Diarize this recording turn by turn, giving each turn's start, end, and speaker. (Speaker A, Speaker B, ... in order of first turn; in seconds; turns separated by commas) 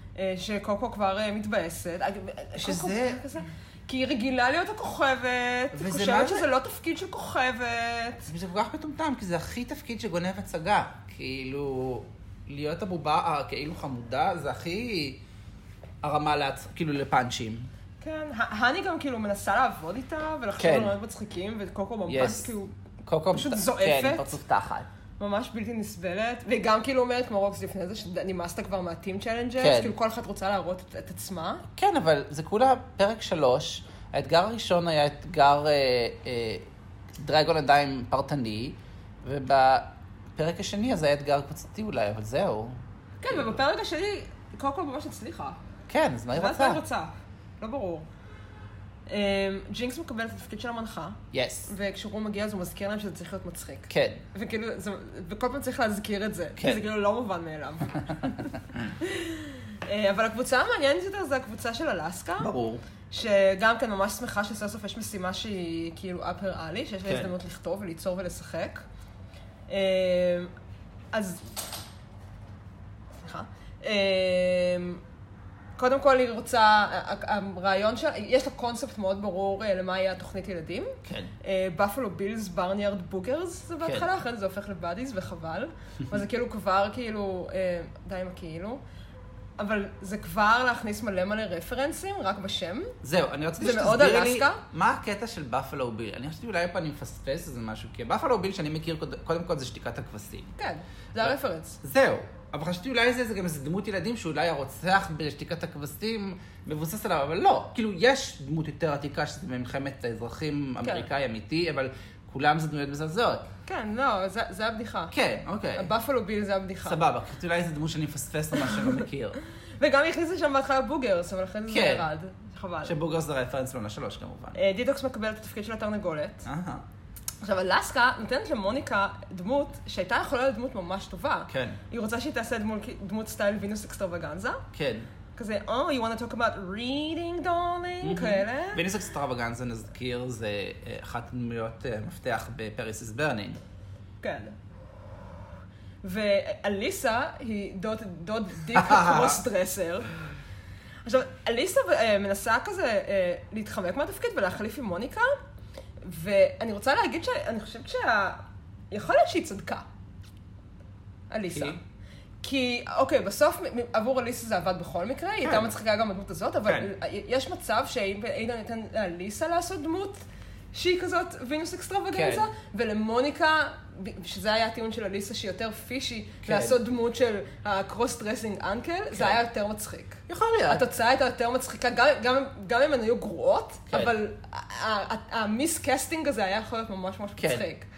Speaker A: 0.1-8.3, Speaker B: 2.6-3.3, Speaker B: 5.7-6.5, Speaker B: 8.3-15.2, Speaker B: 16.0-17.7, Speaker A: 18.0-22.7, Speaker B: 20.6-20.9, Speaker B: 22.1-22.5, Speaker B: 23.0-24.9, Speaker A: 23.3-24.3, Speaker A: 25.2-31.6, Speaker B: 29.6-29.9, Speaker B: 31.7-42.8, Speaker A: 43.2-45.6, Speaker B: 43.3-43.5, Speaker B: 45.9-46.8, Speaker A: 46.3-48.1, Speaker A: 49.1-62.5, Speaker B: 51.3-51.7, Speaker B: 53.9-54.2, Speaker B: 56.6-56.8, Speaker B: 62.4-62.8, Speaker A: 63.1-68.8, Speaker A: 69.7-70.5, Speaker A: 71.1-71.5, Speaker A: 73.2-75.0, Speaker A: 75.8-88.8, Speaker B: 81.0-81.3, Speaker A: 89.6-92.9, Speaker B: 93.0-100.5, Speaker A: 93.6-94.6, Speaker A: 100.6-101.8, Speaker B: 101.2-113.5, Speaker A: 113.7-115.1, Speaker B: 115.1-115.9, Speaker A: 115.8-117.0, Speaker B: 116.8-119.4, Speaker A: 119.8-122.9, Speaker B: 121.7-122.1, Speaker B: 122.8-124.6, Speaker A: 124.5-126.5, Speaker B: 126.5-126.8, Speaker A: 127.4-134.6, Speaker B: 131.5-131.8, Speaker B: 134.7-135.1, Speaker A: 135.3-138.8, Speaker B: 138.0-143.6, Speaker A: 144.2-144.6, Speaker A: 146.0-150.1, Speaker B: 148.7-149.4, Speaker A: 151.1-155.3, Speaker A: 156.0-159.8, Speaker A: 161.3-161.8, Speaker B: 161.5-161.8, Speaker A: 162.4-170.2, Speaker B: 165.4-165.7, Speaker A: 170.7-187.9, Speaker B: 172.1-172.5, Speaker B: 176.4-176.8, Speaker B: 179.1-179.4, Speaker B: 180.3-180.8, Speaker B: 183.9-184.1, Speaker B: 187.4-187.7